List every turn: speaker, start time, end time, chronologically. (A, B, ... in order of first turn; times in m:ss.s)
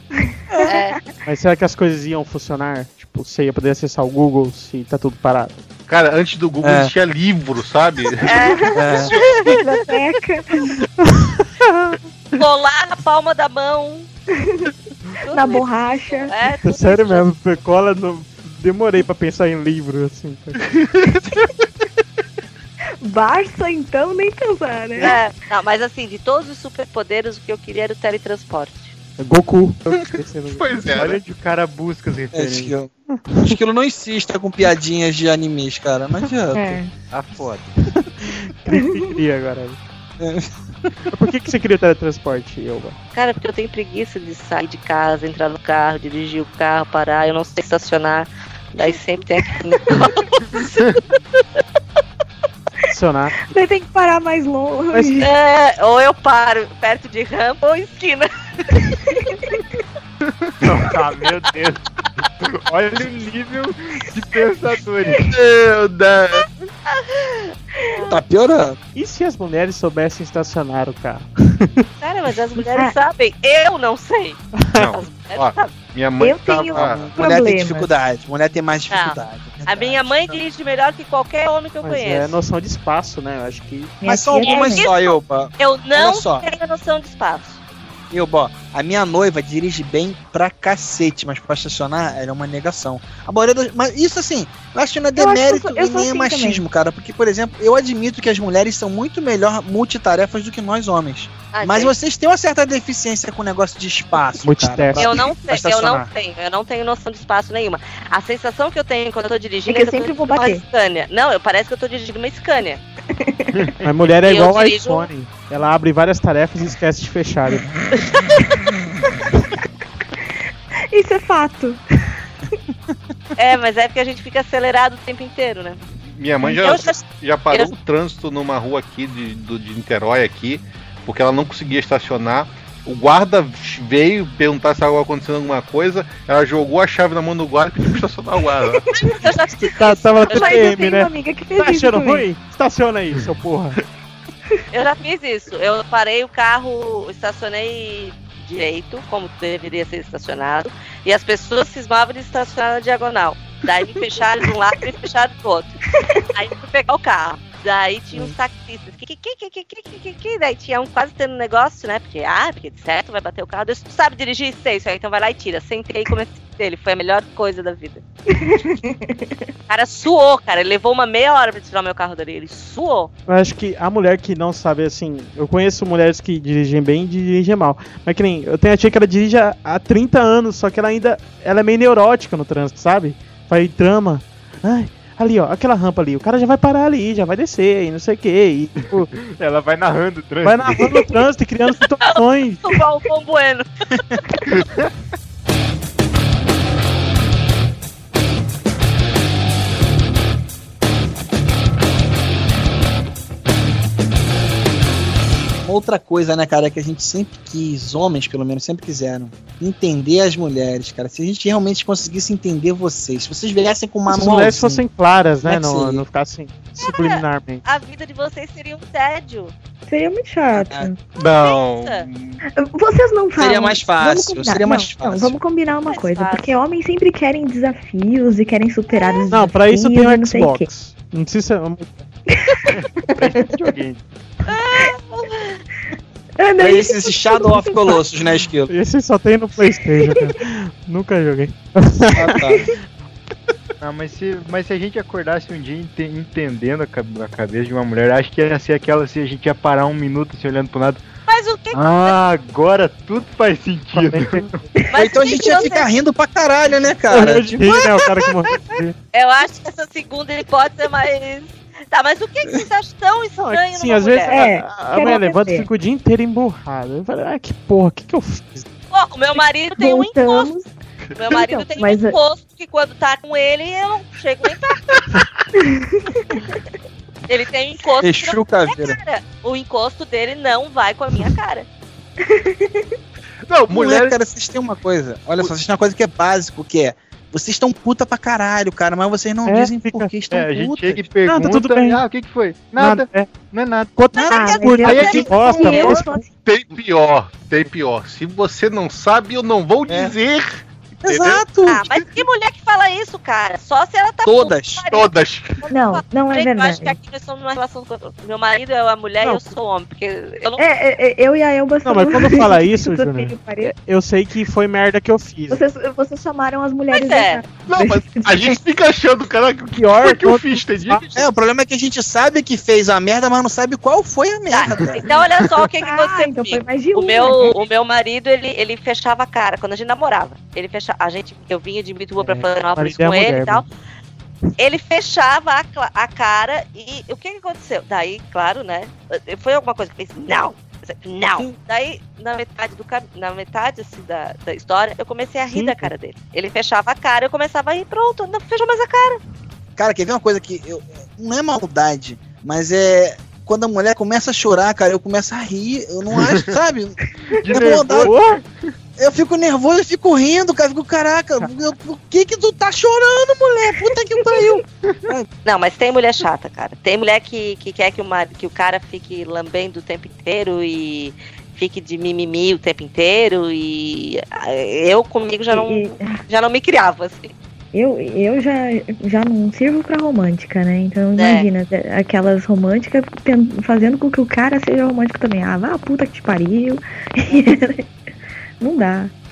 0:00.3-0:00.8 A
0:00.6-0:01.0 B
0:01.2-0:05.6 C
0:05.9-0:08.6 D
0:06.6-0:06.9 E
0:08.2-0:09.7 B
0:08.3-0:10.8 A
0:08.8-0:09.1 E
0:11.0-0:12.0 C
0:12.4-0:14.1 B
0:14.4-0:14.7 A
0:15.2-0:17.3 B
0:15.3-0:16.3 A
0:16.6-0:20.7 C
0:20.8-0:21.4 D
0:23.0-0:25.2 A
0:25.0-0:28.9 B
0:29.2-0:31.0 C
0:29.9-0:31.2 D
0:30.9-0:32.8 F
0:32.3-0:36.8 E
0:36.5-0:36.9 A
0:37.1-0:37.8 F
0:38.0-0:39.8 C
0:40.2-0:40.9 E
0:41.1-0:43.0 C
0:43.1-0:51.0 B
0:52.9-0:53.4 C
0:53.4-0:55.3 A
0:54.9-0:55.2 C
0:55.2-0:58.3 B
0:59.2-0:59.6 A
1:00.3-1:00.5 D
1:00.6-1:01.8 F
1:02.5-1:05.2 F
1:05.2-1:06.5 D
1:06.9-1:08.2 B
1:08.1-1:08.8 E
1:09.0-1:11.8 C
1:12.0-1:15.8 B
1:14.8-1:17.1 D
1:16.2-1:17.9 A
1:16.8-1:17.2 C
1:17.1-1:20.4 E
1:18.9-1:22.4 B
1:21.8-1:24.0 C
1:24.0-1:24.9 A
1:24.0-1:26.5 E
1:24.4-1:27.6 B
1:28.1-1:46.1 E
1:35.2-1:36.6 A
1:41.5-1:41.9 B
1:44.4-1:45.1 C
1:45.0-1:52.8 B
1:49.7-1:50.6 A
1:53.2-1:53.5 A
1:53.8-1:57.7 C
1:54.2-1:55.1 B
2:00.9-2:01.8 A
2:03.4-2:05.8 B
2:06.1-2:18.9 D
2:06.6-2:07.7 B
2:18.7-2:19.1 A
2:18.9-2:20.8 B
2:19.6-2:23.8 C
2:20.3-2:22.2 A
2:24.7-2:35.8 B
2:36.0-2:36.2 A
2:36.3-2:48.0 B
2:48.3-2:49.4 A
2:49.7-2:53.1 B
2:53.3-3:09.1 C
3:09.1-3:10.8 F
3:10.4-3:12.7 C
3:12.0-3:13.7 B
3:25.6-3:34.8 E
3:34.1-3:37.6 C
3:35.4-3:36.0 E
3:36.8-3:39.5 B
3:39.9-3:41.0 A
3:40.5-3:40.9 E
3:41.2-3:42.4 D
3:41.2-3:42.1 B
3:42.5-3:50.7 A
3:43.4-3:45.4 E
3:45.9-3:46.6 B
3:49.3-3:52.0 C
3:52.4-3:52.7 A
3:52.7-3:54.0 F
3:54.5-3:55.6 B
3:56.4-3:58.0 A
3:56.6-3:58.7 E
3:58.7-4:02.4 C
4:02.1-4:02.7 E
4:03.8-4:11.0 F
4:11.3-4:12.2 B
4:11.7-4:14.6 F
4:13.9-4:14.5 C
4:14.8-4:15.9 B
4:14.9-4:17.8 E
4:17.1-4:18.9 C
4:19.1-4:24.4 B
4:23.4-4:28.6 C
4:24.3-4:25.7 A
4:28.9-4:30.5 B
4:29.4-4:30.7 A
4:31.2-4:35.0 B
4:31.3-4:32.2 A
4:35.6-4:36.5 A
4:37.3-4:41.7 B
4:38.0-4:39.0 E
4:42.2-4:42.9 A
4:43.5-4:44.0 D
4:43.7-4:51.1 E
4:49.5-4:50.1 C
4:50.3-4:53.9 F
4:51.3-4:52.0 C
4:52.8-4:53.3 C
4:54.0-4:56.2 C
4:54.1-4:54.5 E
4:54.2-4:56.0 B
4:54.3-4:56.3 A
4:54.9-4:55.2 F
4:56.4-5:01.4 D
4:59.9-5:00.1 E
5:01.1-5:01.8 E
5:01.6-5:10.6 B
5:04.2-5:04.8 E
5:04.9-5:05.6 D
5:05.7-5:06.9 A
5:09.2-5:09.5 C
5:10.6-5:13.8 A
5:11.8-5:13.3 C
5:13.9-5:15.6 C
5:15.5-5:18.6 A
5:16.9-5:17.4 B
5:17.6-5:21.4 D
5:19.7-5:21.0 C
5:21.1-5:25.1 E
5:24.5-5:33.6 B
5:25.8-5:27.6 A
5:32.2-5:33.6 C
5:34.6-5:49.2 B
5:45.5-5:45.9 C
5:49.8-5:58.1 E
5:56.2-5:56.4 F
5:57.4-5:58.4 F
5:57.5-5:58.4 C
5:59.0-6:05.3 E
6:05.4-6:17.3 B
6:15.5-6:16.2 A
6:17.7-6:27.8 A
6:21.2-6:21.5 B
6:28.6-6:29.1 A